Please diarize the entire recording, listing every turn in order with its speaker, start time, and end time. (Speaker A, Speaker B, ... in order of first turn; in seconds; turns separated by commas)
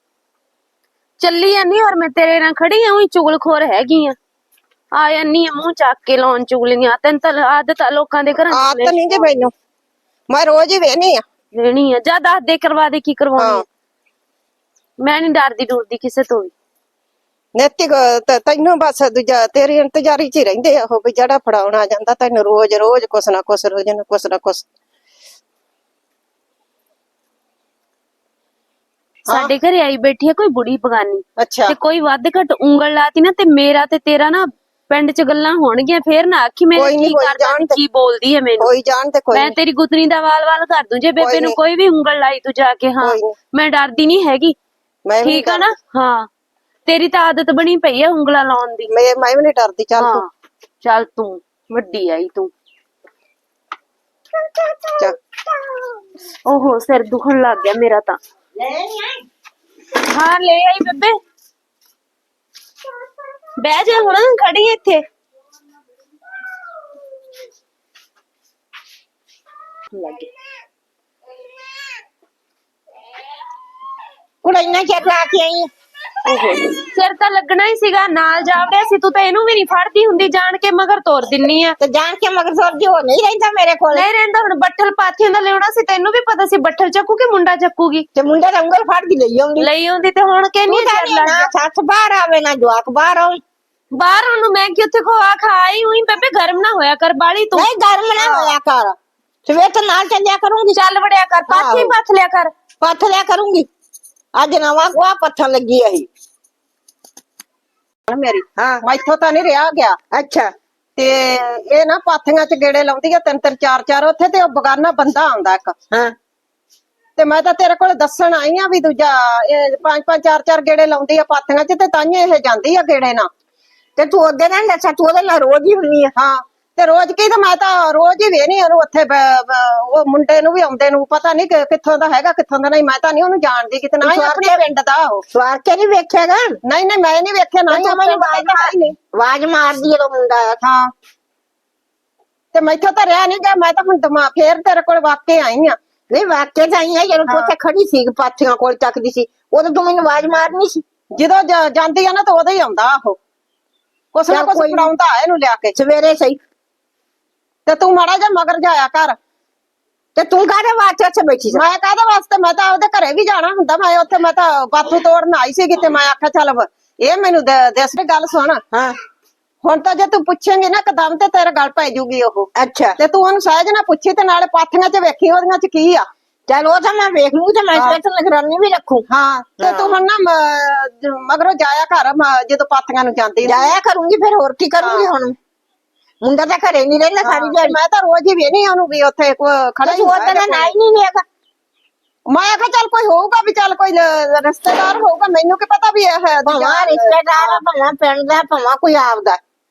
Speaker A: 1.2-4.2, Speaker A: 4.9-9.5, Speaker B: 8.5-9.5, Speaker B: 10.3-11.2, Speaker A: 11.5-13.6, Speaker B: 13.4-13.6, Speaker A: 15.0-16.5, Speaker B: 17.6-24.6, Speaker A: 29.3-38.7, Speaker B: 31.4-31.8, Speaker B: 36.8-37.8, Speaker B: 38.6-39.5, Speaker A: 39.3-44.6, Speaker B: 41.2-41.6, Speaker B: 43.0-43.4, Speaker B: 45.1-45.7, Speaker A: 45.2-46.3, Speaker A: 46.9-48.9, Speaker B: 48.9-50.2, Speaker A: 50.0-50.3, Speaker A: 50.8-52.5, Speaker C: 54.5-55.9, Speaker A: 56.5-58.2, Speaker C: 58.6-59.2, Speaker A: 59.9-61.2, Speaker A: 63.6-65.0, Speaker A: 69.9-70.3, Speaker C: 74.4-75.7, Speaker A: 76.3-81.8, Speaker C: 81.8-84.1, Speaker A: 83.9-88.1, Speaker C: 88.2-89.7, Speaker A: 89.6-91.5, Speaker C: 90.7-93.4, Speaker A: 94.0-97.7, Speaker C: 97.5-100.8, Speaker B: 98.2-98.6, Speaker A: 100.7-102.5, Speaker C: 101.5-102.0, Speaker C: 102.8-103.7, Speaker C: 104.4-106.1, Speaker B: 108.1-110.0, Speaker C: 108.6-108.8, Speaker C: 110.1-110.5, Speaker B: 111.0-115.8, Speaker B: 117.2-123.3, Speaker C: 124.0-126.1, Speaker B: 126.2-135.2, Speaker C: 134.0-134.6, Speaker C: 135.3-136.6, Speaker B: 136.7-139.0, Speaker C: 137.7-140.6, Speaker B: 140.6-140.9, Speaker B: 142.5-145.8, Speaker C: 146.1-150.8, Speaker B: 147.3-147.5, Speaker B: 151.2-153.2, Speaker B: 154.1-155.8, Speaker C: 154.3-154.9, Speaker C: 155.7-156.4, Speaker B: 157.7-159.2, Speaker C: 160.2-161.6, Speaker B: 161.5-168.6, Speaker B: 169.6-176.1, Speaker C: 172.6-173.0, Speaker C: 176.5-179.1, Speaker B: 177.7-178.0, Speaker B: 179.1-183.8, Speaker C: 179.6-180.0, Speaker C: 183.4-185.4, Speaker B: 184.8-185.1, Speaker C: 186.2-187.8, Speaker B: 187.2-190.7, Speaker C: 189.8-191.2, Speaker B: 192.3-197.6, Speaker C: 196.5-199.4